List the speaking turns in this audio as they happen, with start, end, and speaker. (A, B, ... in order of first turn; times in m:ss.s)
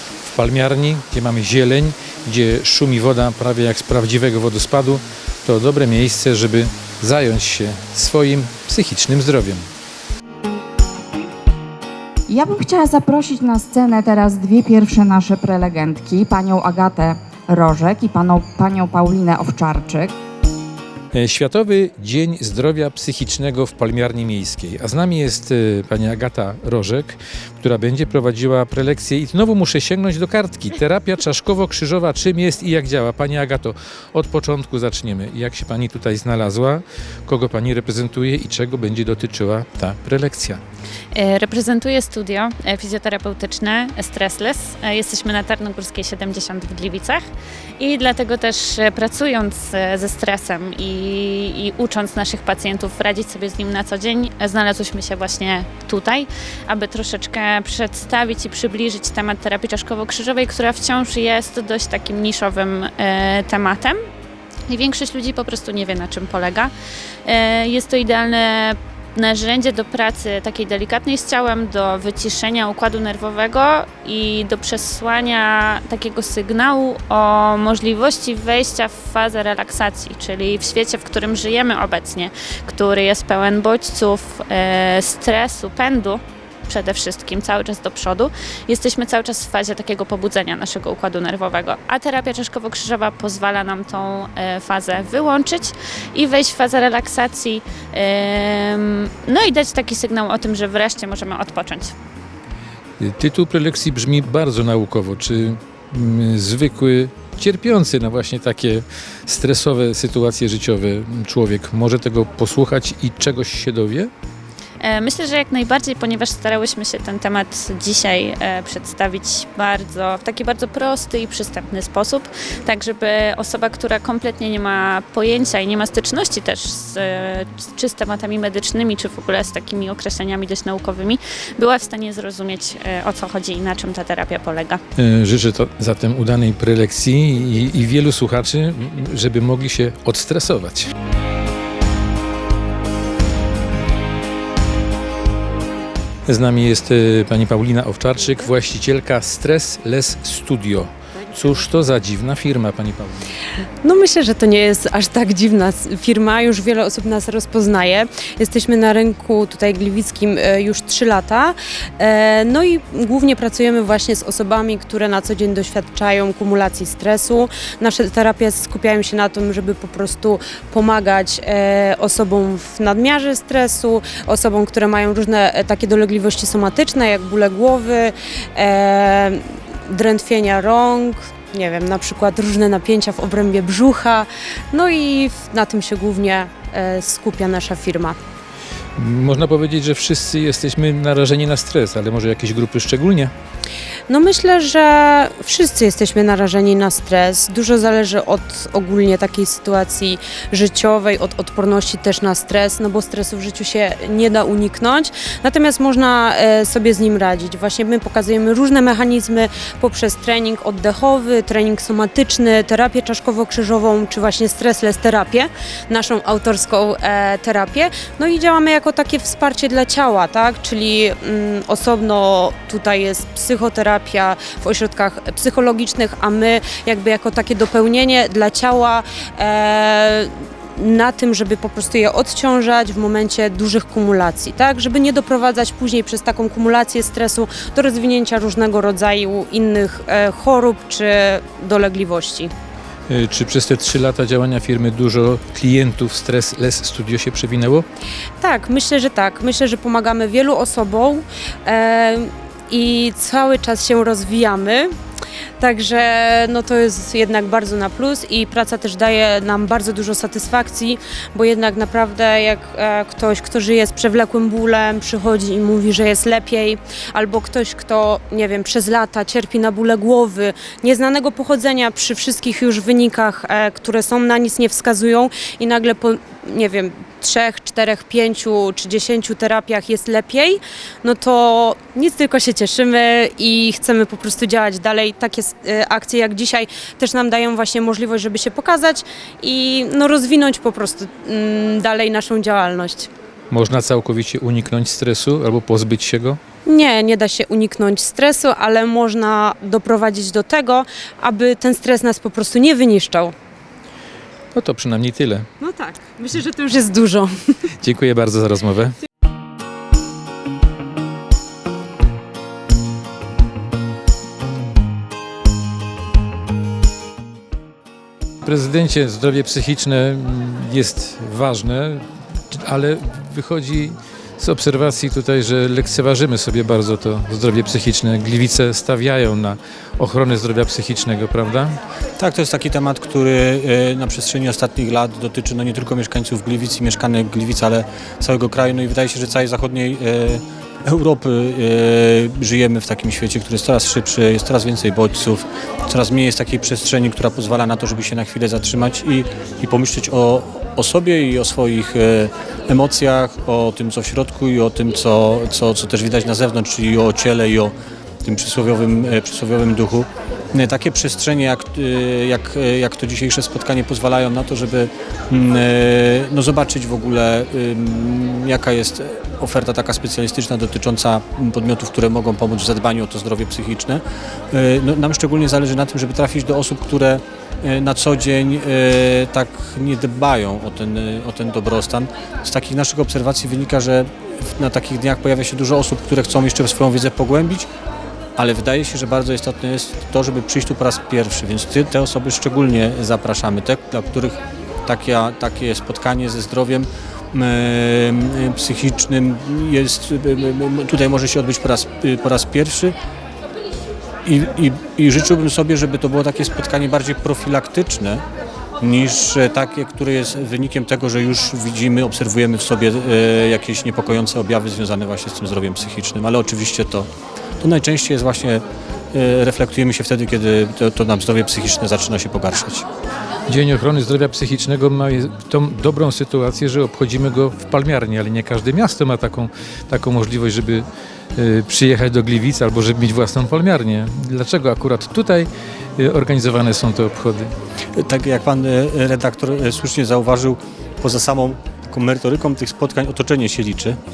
0:00.2-0:09.6 A
0:12.3-0:20.1 B
0:21.1-0:40.6 A
0:41.1-0:47.2 C
0:47.8-1:04.0 C
1:04.7-1:06.7 C
1:07.2-1:41.9 C
1:43.0-1:54.1 A
1:54.8-2:14.8 C
2:15.0-2:20.9 A
2:26.3-2:33.2 A
2:33.8-3:08.2 D
3:09.0-3:13.3 A
3:14.1-4:02.5 D
4:03.1-4:07.8 A
4:08.4-4:14.9 D
4:15.6-4:53.1 D
4:53.5-4:56.4 A
4:56.6-5:03.3 D
5:04.5-5:05.4 A
5:05.6-5:07.3 D
5:07.8-5:09.0 A
5:18.4-5:31.8 A
5:32.2-6:27.7 E
6:28.4-6:42.9 E
6:44.2-6:48.2 E
6:48.8-6:57.1 E
6:57.6-7:02.8 E
7:03.5-7:10.8 A
7:11.4-7:17.5 A
7:18.0-7:24.0 E